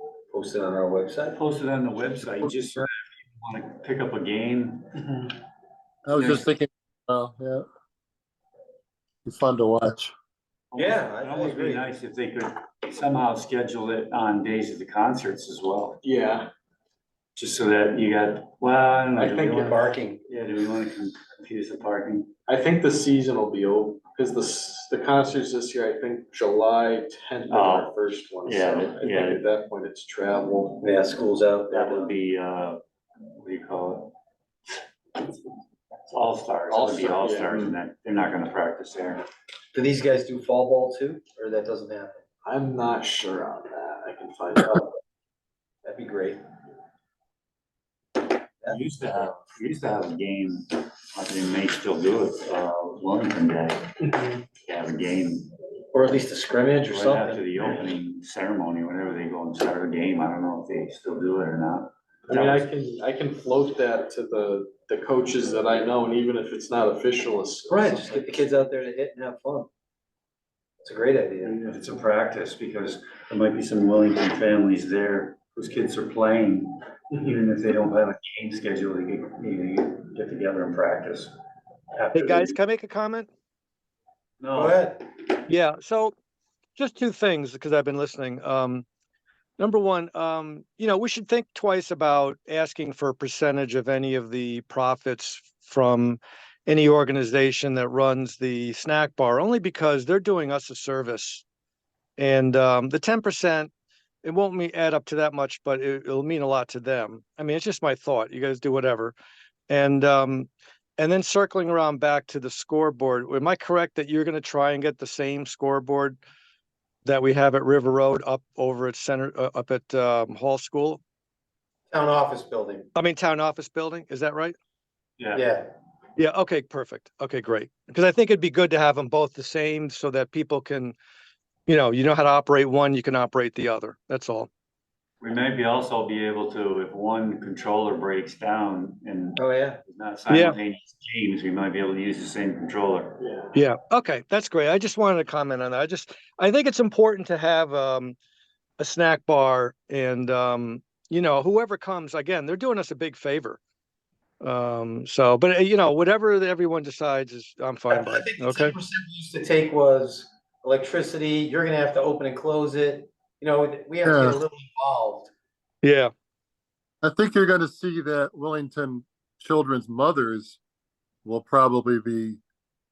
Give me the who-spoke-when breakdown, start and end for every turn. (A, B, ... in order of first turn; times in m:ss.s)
0:00.3-0:01.4 A
0:01.3-0:05.2 B
0:06.0-0:07.6 C
0:06.2-0:06.4 B
0:09.2-0:10.1 C
0:10.7-0:16.0 B
0:10.8-0:11.8 A
0:16.0-0:16.5 D
0:17.4-0:22.3 B
0:19.2-0:19.8 D
0:19.7-0:20.2 A
0:22.5-0:30.8 D
0:27.5-0:27.9 B
0:28.4-0:29.4 B
0:30.8-0:32.1 A
0:31.7-0:32.8 B
0:33.3-0:34.1 B
0:35.1-0:39.2 B
0:36.7-0:37.7 D
0:39.7-0:42.2 A
0:42.4-0:44.9 D
0:45.8-0:46.4 A
0:48.6-0:53.9 B
0:54.0-0:54.4 D
0:54.6-0:55.5 B
0:55.9-0:57.4 A
0:56.9-1:02.6 B
1:02.3-1:08.5 D
1:07.7-1:09.7 A
1:10.8-1:11.5 A
1:11.4-1:21.3 B
1:21.9-1:22.6 B
1:22.1-1:23.3 E
1:24.4-1:24.8 B
1:24.5-1:25.0 A
1:25.5-1:26.1 E
1:26.8-1:28.8 E
1:29.6-1:41.4 E
1:42.2-1:43.7 E
1:44.2-1:49.1 E
1:49.7-1:56.2 E
1:57.0-2:01.0 E
2:01.9-2:02.9 A
2:02.9-2:04.6 E
2:05.2-2:05.4 B
2:05.3-2:05.6 A
2:06.2-2:11.0 E
2:11.7-2:14.5 E
2:15.2-2:23.2 B
2:19.4-2:19.8 A
2:20.3-2:20.6 E
2:23.2-2:23.5 D
2:23.5-2:28.2 E
2:28.8-2:33.6 E
2:34.4-2:38.8 E
2:37.9-2:45.3 A
2:44.0-2:44.4 C
2:45.8-2:46.1 E
2:47.0-2:50.6 C
2:51.2-2:52.4 C